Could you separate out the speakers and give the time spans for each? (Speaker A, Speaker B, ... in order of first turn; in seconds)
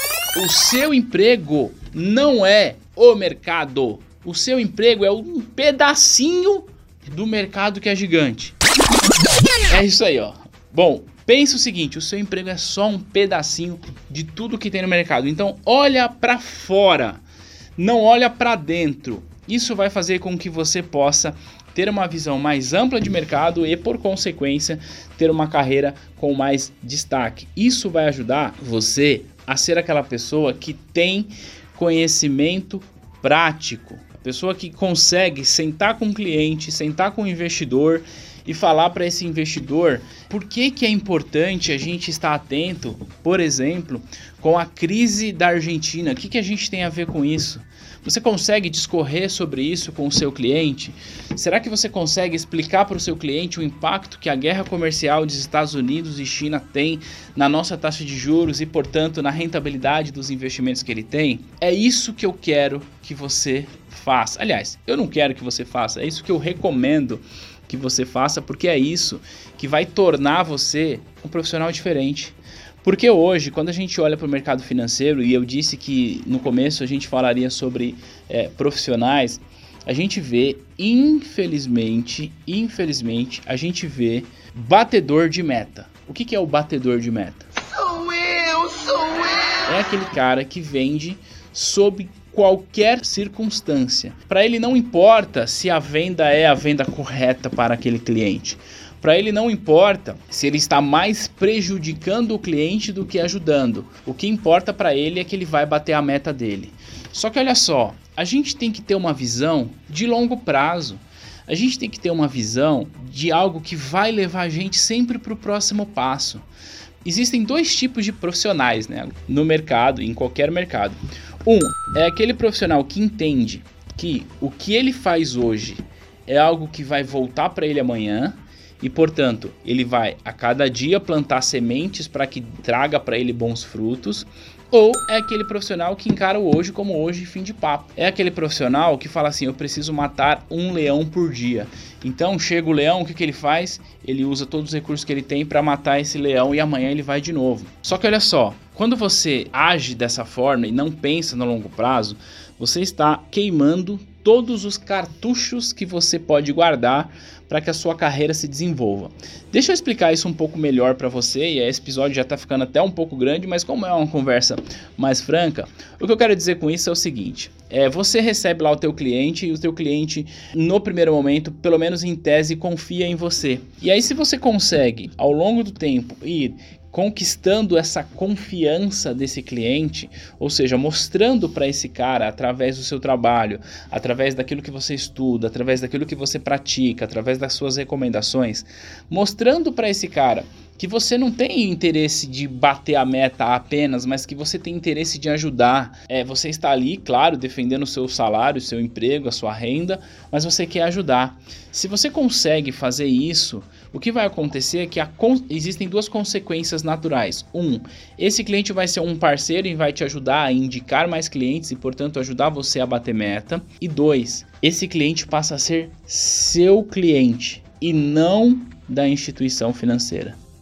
Speaker A: 0.3-8.5, 9.7-17.2, 17.8-87.5, 89.6-116.4, 117.0-220.4